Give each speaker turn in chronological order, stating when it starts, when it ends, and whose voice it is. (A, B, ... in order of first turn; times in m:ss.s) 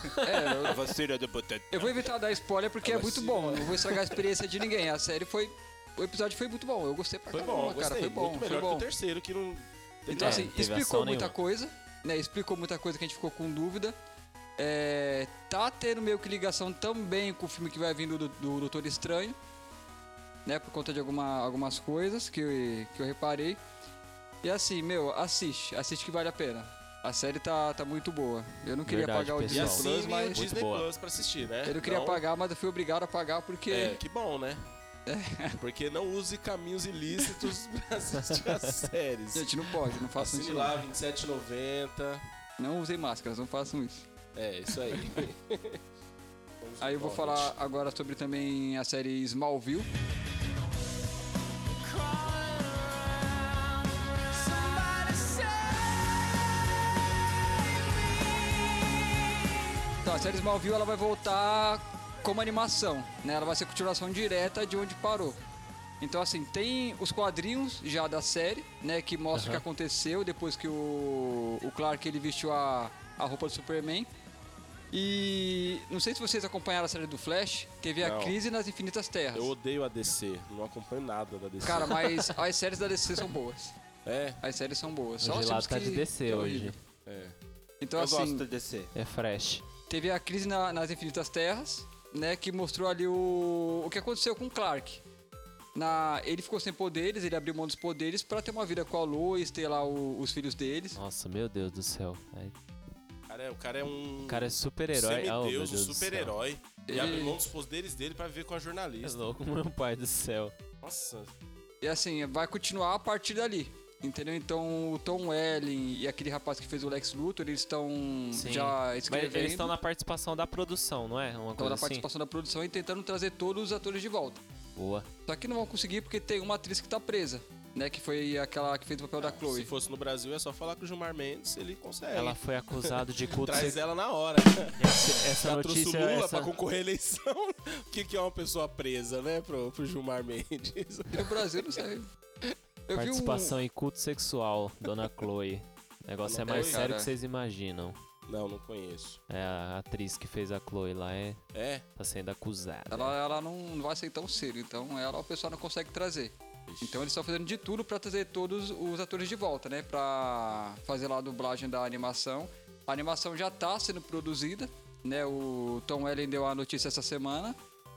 0:00.2-0:00.9 A
0:00.6-0:02.0 B
0:01.7-0:08.9 A
0:03.0-0:03.8 C
0:07.3-0:10.4 C
0:10.1-0:14.0 A
0:10.2-0:11.3 D
0:14.6-0:19.4 A
0:20.5-0:23.6 A
0:24.4-0:30.4 A
0:28.8-0:30.9 D
0:29.5-0:32.2 C
0:31.6-0:34.0 A
0:33.7-0:34.6 C
0:35.1-0:35.6 A
0:35.6-0:42.2 C
0:39.4-0:40.8 A
0:42.6-0:44.1 A
0:44.4-0:45.8 C
0:46.6-0:47.5 C
0:46.8-0:49.9 A
0:52.2-0:52.9 D
0:54.5-0:55.5 D
1:00.0-1:05.4 A
1:06.0-1:14.1 A
1:09.3-1:09.6 D
1:14.9-1:19.5 A
1:18.0-1:18.4 C
1:19.3-1:22.4 C
1:21.6-1:23.8 A
1:24.1-1:24.4 C
1:24.4-1:26.8 A
1:25.2-1:26.8 D
1:27.1-1:27.3 C
1:27.8-1:28.5 A
1:28.0-1:28.9 B
1:28.9-1:29.6 D
1:29.9-1:35.0 A
1:35.8-1:41.0 A
1:41.0-1:42.5 D
1:43.3-1:49.2 C
1:44.3-1:46.4 D
1:46.9-1:47.4 A
1:49.0-1:50.6 D
1:50.8-1:51.3 C
1:51.8-1:59.7 A
1:58.3-2:02.0 D
2:01.6-2:04.4 A
2:04.8-2:05.1 D
2:05.3-2:09.7 A
2:09.4-2:21.4 C
2:12.1-2:13.8 D
2:14.8-2:16.5 D
2:21.1-2:22.1 A
2:22.9-2:23.6 A
2:22.9-2:28.0 D
2:26.2-2:26.8 C
2:26.5-2:27.1 A
2:28.3-2:29.2 C
2:29.3-2:31.4 D
2:31.5-2:31.8 C
2:32.0-2:33.1 D
2:32.9-2:47.6 A
2:36.7-2:37.0 C